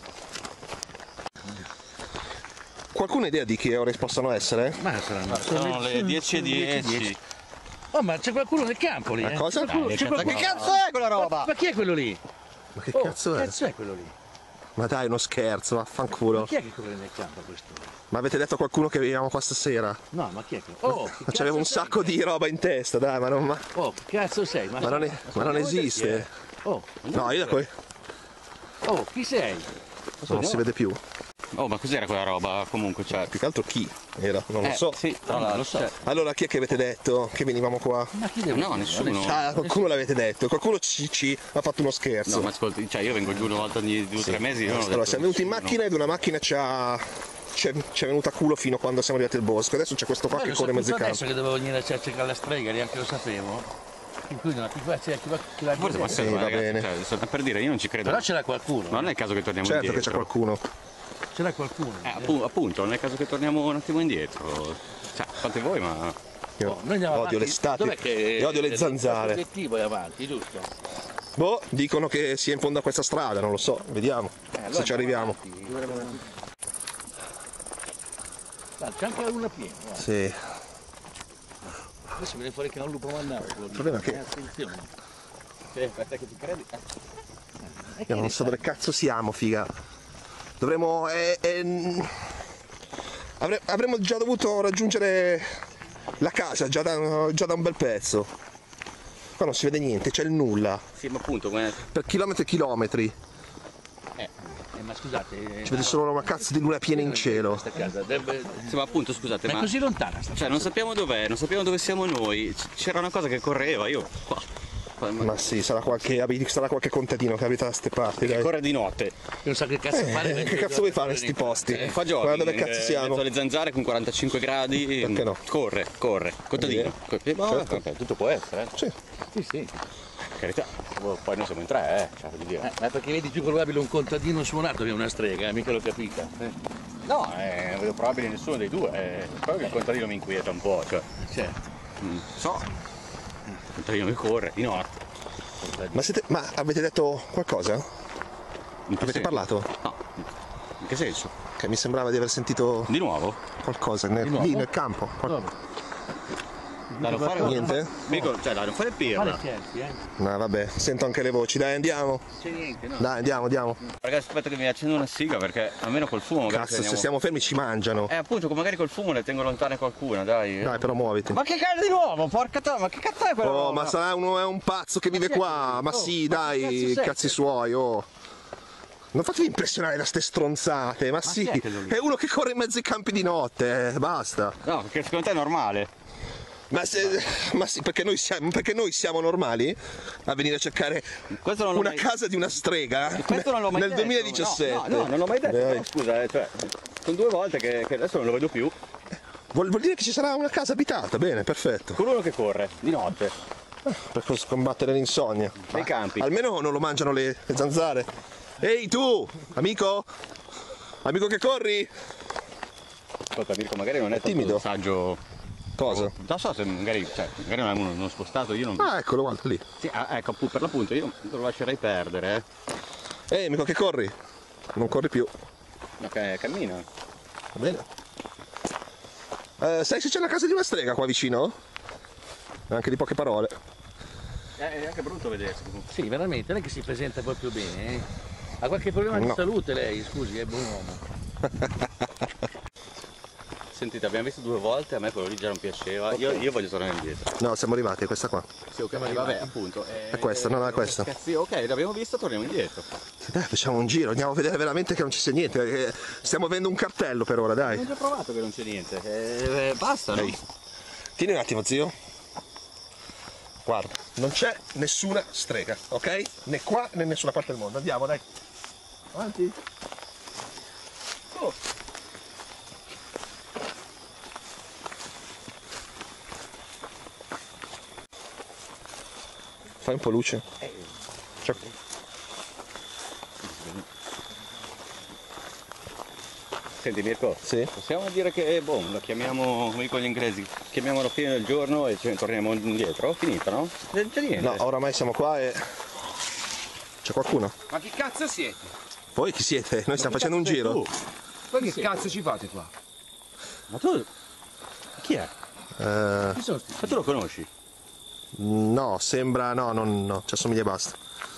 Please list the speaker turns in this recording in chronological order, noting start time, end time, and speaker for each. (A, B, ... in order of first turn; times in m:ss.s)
0:02.9-0:04.8 A
0:04.8-0:07.2 B
0:05.3-0:07.2 C
0:07.9-0:12.2 B
0:09.2-0:10.7 A
0:09.7-0:11.5 C
0:12.8-0:13.6 A
0:12.9-0:14.1 B
0:14.8-0:16.5 A
0:16.3-0:17.9 B
0:18.1-0:20.0 A
0:20.1-0:22.2 B
0:20.9-0:23.7 A
0:23.8-0:26.9 B
0:24.8-0:26.3 A
0:27.0-0:27.6 C
0:27.1-0:27.7 A
0:28.8-0:29.7 B
0:30.2-0:30.6 C
0:30.2-0:31.0 A
0:31.5-0:33.4 C
0:33.3-0:35.0 A
0:34.6-0:36.0 C
0:35.3-0:36.0 B
0:36.0-0:38.1 A
0:38.1-0:39.8 B
0:38.5-0:39.4 C
0:39.0-0:42.5 A
0:42.3-0:45.8 C
0:44.2-0:51.2 A
0:50.3-0:53.7 B
0:54.3-0:56.4 B
0:55.8-0:58.3 C
0:56.1-0:56.9 A
0:58.0-0:59.1 B
0:58.9-1:00.3 C
0:59.6-1:00.6 A
1:01.3-1:02.4 B
1:02.0-1:06.2 C
1:06.6-1:09.4 A
1:06.6-1:10.7 B
1:11.4-1:15.4 A
1:14.6-1:16.2 B
1:15.7-1:16.2 C
1:18.8-1:20.0 B
1:20.0-1:20.4 A
1:22.1-1:24.9 B
1:23.7-1:24.2 A
1:25.7-1:26.8 C
1:27.6-1:28.6 B
1:28.1-1:29.7 A
1:30.6-1:32.3 A
1:33.4-1:35.6 A
1:36.2-1:38.3 A
1:39.4-1:40.8 A
1:41.0-1:41.8 C
1:41.9-1:43.2 A
1:44.7-1:48.8 B
1:45.6-1:47.7 A
1:48.6-1:49.7 C
1:49.5-1:50.7 B
1:50.3-1:54.5 C
1:55.0-1:56.1 C
1:55.2-1:58.5 A
1:58.2-1:59.1 C
1:59.4-2:02.0 B
1:59.9-2:03.2 A
2:01.7-2:08.7 C
2:05.0-2:05.4 A
2:06.6-2:06.9 A
2:07.5-2:07.8 A
2:08.0-2:08.4 B
2:09.3-2:09.7 B
2:10.2-2:12.7 C
2:12.6-2:16.3 B
2:17.1-2:21.1 C
2:21.2-2:21.7 B
2:22.0-2:22.7 C
2:23.8-2:25.0 C
2:25.6-2:26.0 B
2:25.9-2:27.9 A
2:28.9-2:30.3 C
2:29.0-2:29.7 A
2:30.8-2:31.3 C
2:31.6-2:32.9 A
2:32.9-2:33.4 C
2:33.6-2:35.4 A
2:34.2-2:34.7 B
2:35.2-2:35.5 B
2:36.9-2:37.8 B
2:37.0-2:39.4 C
2:37.4-2:38.3 A
2:39.1-2:40.0 B
2:40.2-2:42.2 A
2:42.4-2:43.1 B
2:43.0-2:43.8 A
2:43.8-2:47.1 C
2:46.4-2:48.1 A
2:48.1-2:54.0 C
2:50.6-2:51.4 A
2:53.4-2:58.1 A
2:55.1-2:57.4 B
2:59.1-3:04.6 A
3:01.3-3:01.6 C
3:01.5-3:01.9 B
3:04.6-3:05.9 C
3:06.7-3:15.9 A
3:11.4-3:12.1 C
3:13.2-3:18.8 C
3:19.5-3:22.0 A
3:22.0-3:23.4 C
3:23.8-3:30.1 A
3:25.7-3:26.3 C
3:31.0-3:31.9 A
3:33.3-3:35.2 C
3:34.1-3:34.6 A
3:35.8-3:36.1 A
3:35.8-3:38.9 C
3:38.8-3:39.6 A
3:39.8-3:42.4 C
3:43.3-3:44.2 A
3:44.7-3:45.3 A
3:46.0-3:46.9 C
3:47.6-3:47.8 A
3:49.6-3:51.6 A
3:52.7-3:53.6 A
3:54.6-3:55.9 C
3:55.9-3:58.1 B
3:58.6-4:01.0 B
3:59.1-3:59.4 A
4:01.4-4:01.8 A
4:03.7-4:07.4 C
4:06.1-4:06.4 B
4:07.4-4:08.5 A
4:08.8-4:12.9 C
4:08.9-4:09.5 B
4:10.1-4:11.1 A
4:13.2-4:17.9 A
4:17.6-4:20.4 C
4:21.2-4:22.0 A
4:23.6-4:28.2 A
4:29.1-4:29.6 A
4:39.8-4:40.5 A
4:41.4-4:41.7 C
4:43.4-4:43.8 C
4:46.8-4:54.6 C
4:47.4-4:47.7 A
4:54.4-4:55.6 A
4:57.0-4:57.5 A
4:57.7-4:58.6 D
4:59.2-5:00.8 A
5:00.0-5:00.9 C
5:01.5-5:02.7 D
5:01.6-5:01.9 B
5:03.7-5:04.1 C
5:05.0-5:05.3 C
5:05.8-5:06.4 A
5:06.3-5:07.0 B
5:06.8-5:07.5 C
5:08.3-5:11.0 A